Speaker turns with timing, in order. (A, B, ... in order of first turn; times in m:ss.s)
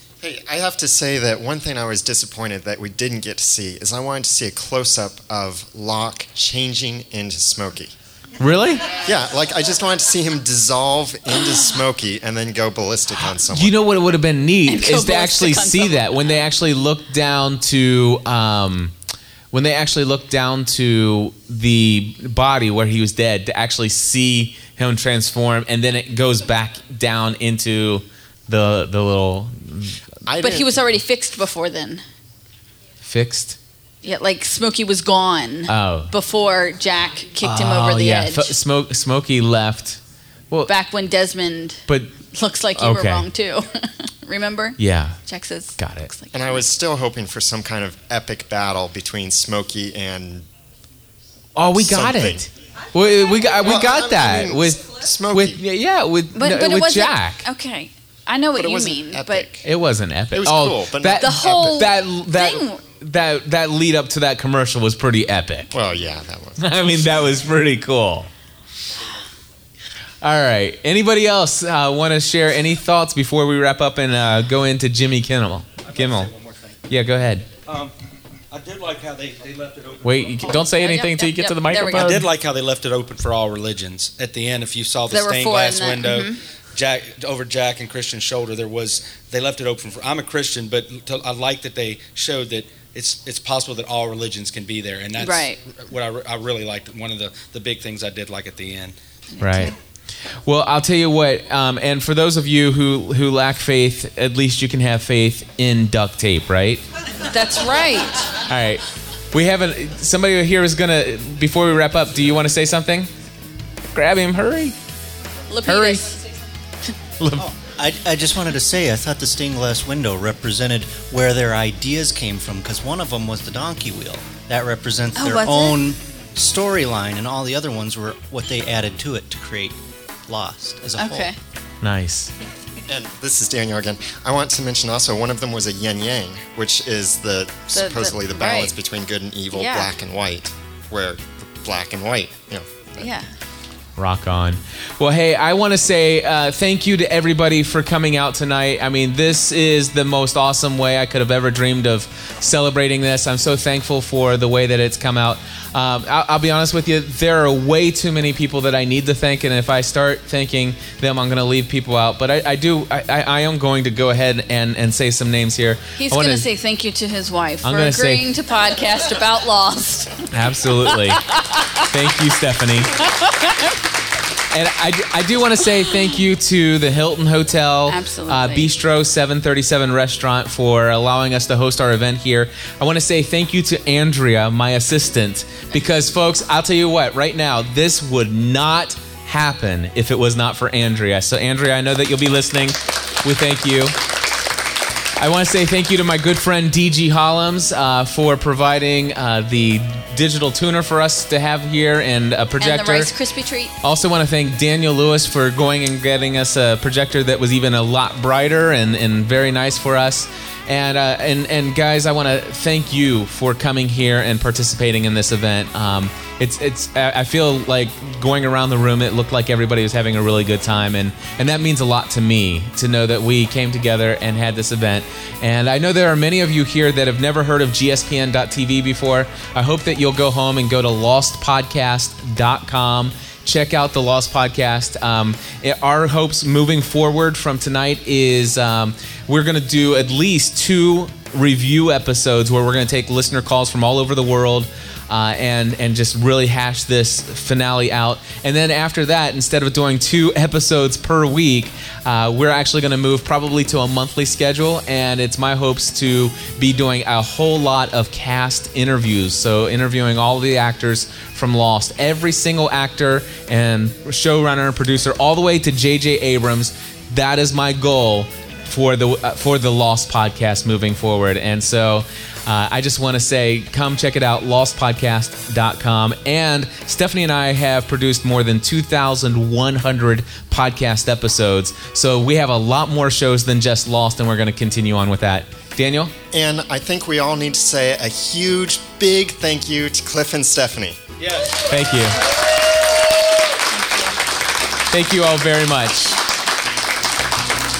0:00.2-0:07.9 A
0:08.4-0:08.9 B
0:09.0-0:13.8 A
0:13.4-0:18.9 B
0:14.7-0:16.1 C
0:19.5-0:30.0 B
0:30.2-0:30.8 A
0:30.4-0:32.0 C
0:33.0-0:33.6 B
0:34.0-0:38.5 C
0:35.7-0:36.1 B
0:37.4-0:40.7 B
0:40.6-0:46.6 C
0:41.9-0:42.1 B
0:42.8-0:43.3 B
0:44.8-0:45.2 B
0:45.8-0:46.1 B
0:46.3-0:50.5 A
0:51.6-0:57.4 B
0:51.7-0:52.4 A
0:53.3-0:55.6 A
0:56.3-0:59.5 C
0:58.5-0:59.7 A
0:59.6-1:05.7 B
1:00.3-1:01.9 A
1:01.2-1:02.8 C
1:05.7-1:07.3 A
1:06.6-1:08.3 B
1:10.2-1:16.3 B
1:15.8-1:16.8 D
1:16.9-1:17.5 B
1:17.6-1:17.9 D
1:18.5-1:20.7 D
1:20.0-1:22.3 B
1:20.6-1:22.2 C
1:21.9-1:39.0 D
1:25.1-1:26.4 C
1:35.2-1:35.6 C
1:39.3-1:39.7 C
1:39.4-1:39.7 B
1:40.4-1:46.8 B
1:47.2-1:48.3 C
1:48.4-1:53.1 B
1:53.9-1:54.8 B
1:55.5-1:56.2 C
1:55.6-1:56.0 B
1:57.2-1:57.5 B
1:57.4-2:11.3 E
2:05.1-2:05.8 C
2:11.0-2:11.4 C
2:11.8-2:12.3 B
2:12.9-2:23.1 A
2:17.7-2:18.7 C
2:19.5-2:19.9 C
2:23.0-2:23.3 C
2:24.0-2:46.4 B
2:46.0-2:50.2 C
2:47.6-2:48.3 B
2:50.3-2:52.9 B
2:53.1-2:53.6 C
2:54.5-3:13.9 B
2:57.9-2:58.7 C
3:15.2-3:23.1 B
3:22.6-3:23.7 C
3:23.8-4:46.1 B
4:46.3-4:51.0 A
4:51.2-4:51.6 D
4:51.6-4:52.2 B
4:53.7-4:54.2 C
4:54.9-4:56.2 B